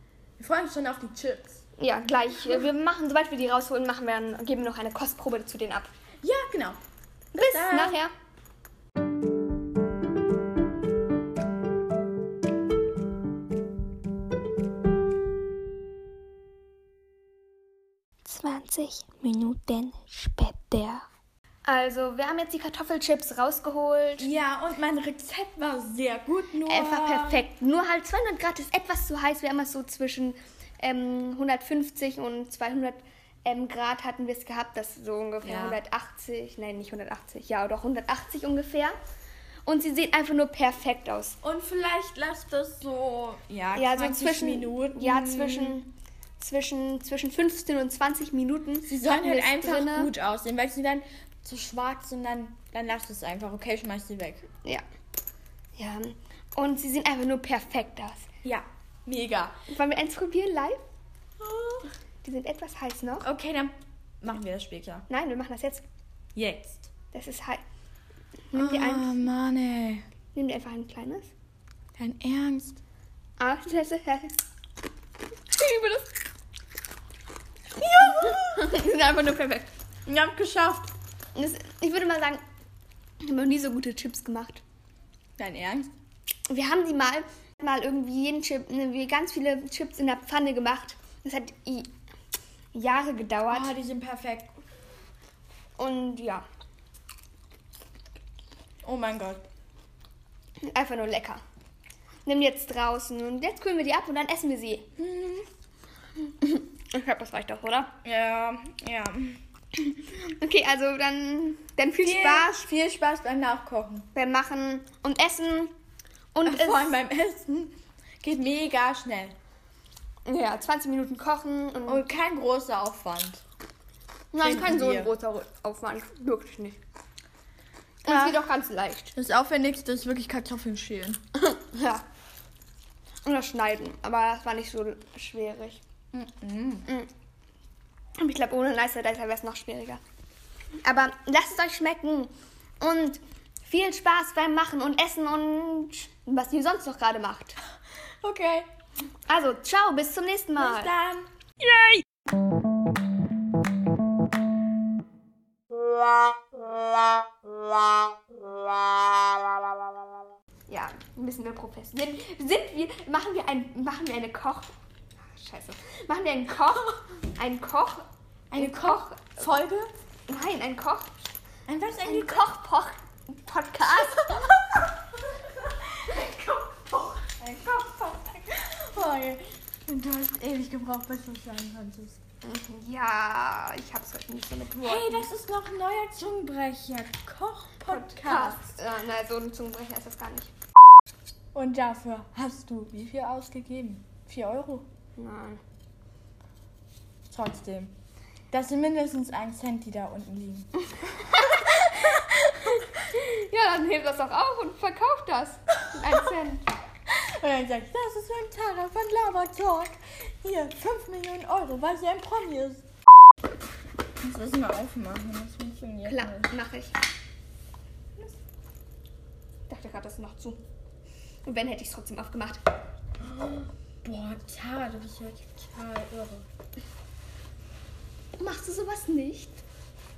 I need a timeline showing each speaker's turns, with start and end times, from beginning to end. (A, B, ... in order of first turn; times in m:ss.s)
0:00.4-0:01.6 A
0:01.8-0:05.9 B
0:06.2-0:06.8 A
0:07.3-0:08.0 A
0:07.4-0:08.1 B
0:18.2-0:21.0 B
0:21.6-0:24.3 B
0:24.2-0:27.4 A
0:26.6-0:38.9 B
0:35.4-0:35.8 A
0:39.6-0:41.4 B
0:41.4-0:45.8 A
0:43.7-0:50.1 B
0:48.8-0:54.4 A
0:55.8-0:58.3 B
0:58.4-0:59.5 A
0:59.7-1:00.8 B
1:01.4-1:01.9 A
1:02.2-1:03.3 B
1:03.2-1:05.0 A
1:05.1-1:05.8 B
1:06.3-1:06.9 A
1:07.1-1:07.6 B
1:08.5-1:09.2 B
1:08.5-1:10.0 A
1:10.3-1:11.3 B
1:12.0-1:12.8 A
1:13.4-1:14.4 B
1:15.5-1:16.1 B
1:17.8-1:18.7 A
1:18.0-1:19.7 B
1:20.1-1:20.9 A
1:21.3-1:22.4 B
1:23.2-1:24.6 B
1:25.4-1:25.9 A
1:26.5-1:31.9 B
1:32.7-1:33.7 B
1:33.5-1:34.6 A
1:35.8-1:36.4 B
1:38.8-1:39.4 A
1:40.6-1:41.4 B
1:42.2-1:44.9 B
1:45.0-1:45.4 A
1:46.4-1:47.9 B
1:48.0-1:49.4 A
1:49.8-1:52.7 B
1:52.0-1:54.1 A
1:54.1-1:55.7 B
1:56.3-1:57.0 B
1:56.4-1:59.3 A
2:00.2-2:02.0 B
2:01.9-2:03.4 A
2:04.3-2:06.8 B
2:04.4-2:05.1 A
2:08.0-2:09.1 B
2:08.1-2:08.4 A
2:09.2-2:11.2 A
2:11.3-2:12.0 B
2:13.2-2:15.8 B
2:16.1-2:16.9 A
2:18.2-2:20.0 B
2:20.8-2:27.6 B
2:28.2-2:28.7 A
2:29.3-2:30.9 B
2:30.6-2:32.0 A
2:40.7-2:49.6 B
2:48.5-2:49.9 A
2:50.3-2:51.2 B
2:51.7-2:52.5 A
2:52.0-2:54.6 B
2:54.0-3:02.2 A
3:02.4-3:05.3 B
3:04.8-3:08.7 A
3:07.9-3:10.5 B
3:11.5-3:14.8 A
3:15.2-3:15.6 B
3:17.3-3:17.9 A
3:18.5-3:22.3 A
3:21.4-3:22.2 B
3:23.0-3:26.7 B
3:27.1-3:32.8 A
3:34.2-3:36.5 A
3:36.0-3:37.0 B
3:39.7-3:40.6 B
3:41.4-3:42.6 B
3:43.2-3:46.4 A
3:48.4-3:49.6 B